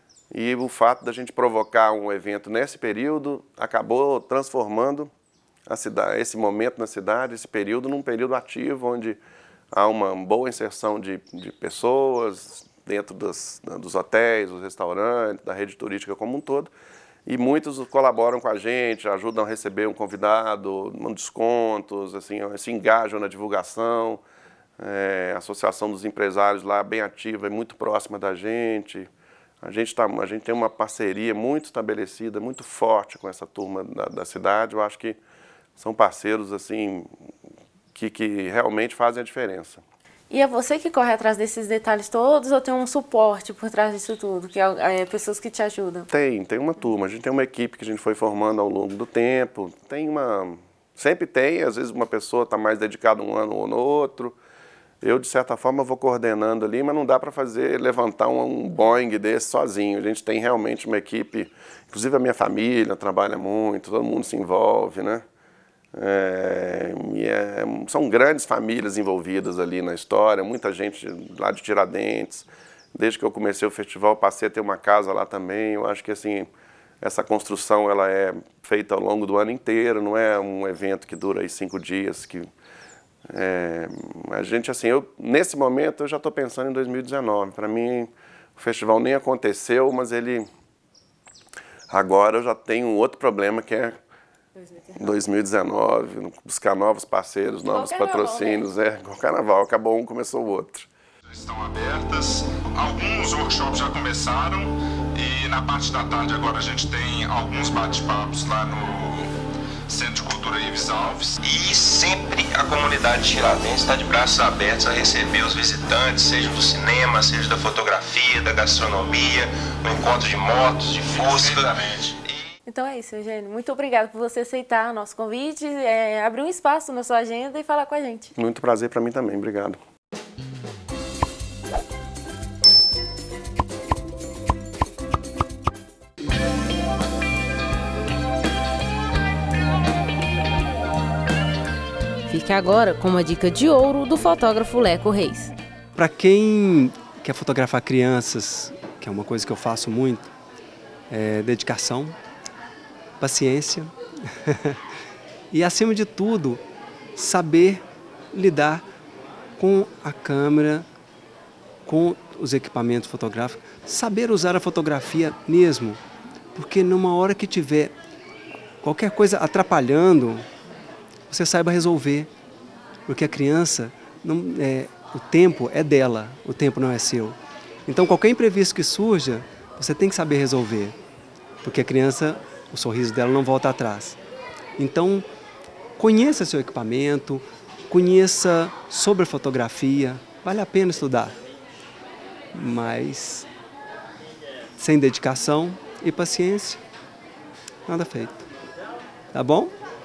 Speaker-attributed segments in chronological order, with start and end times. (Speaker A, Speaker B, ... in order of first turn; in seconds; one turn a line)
Speaker A: 0.3-5.1
Speaker A: 5.7-9.2
Speaker A: 9.7-16.7
Speaker A: 17.2-24.2
Speaker A: 24.8-29.1
Speaker A: 29.6-35.2
Speaker A: 35.8-37.1
Speaker A: 37.9-39.8
Speaker B: 40.3-46.1
Speaker A: 46.1-54.4
Speaker A: 55.0-65.2
Speaker A: 65.9-76.5
Speaker A: 77.0-82.5
Speaker A: 83.3-90.5
Speaker A: 91.9-93.9
Speaker B: 94.7-94.9
Speaker A: 95.0-100.9
Speaker B: 97.7-98.7
Speaker C: 101.3-109.3
Speaker C: 109.9-111.3
Speaker D: 111.3-122.3
Speaker C: 121.2-121.5
Speaker B: 122.7-128.3
Speaker A: 128.3-129.8
Speaker B: 142.3-145.5
Speaker E: 145.9-150.3
Speaker E: 151.1-152.2
Speaker E: 153.2-154.8
Speaker E: 155.5-156.6
Speaker E: 157.2-158.8
Speaker E: 159.6-160.9
Speaker E: 161.8-166.0
Speaker E: 166.5-167.9
Speaker E: 168.8-170.5
Speaker E: 171.3-172.3
Speaker E: 173.1-181.0
Speaker E: 181.6-184.2
Speaker E: 184.8-185.3
Speaker E: 186.0-191.4
Speaker E: 192.5-193.5
Speaker E: 194.8-196.8
Speaker E: 197.8-198.5
Speaker E: 199.3-199.8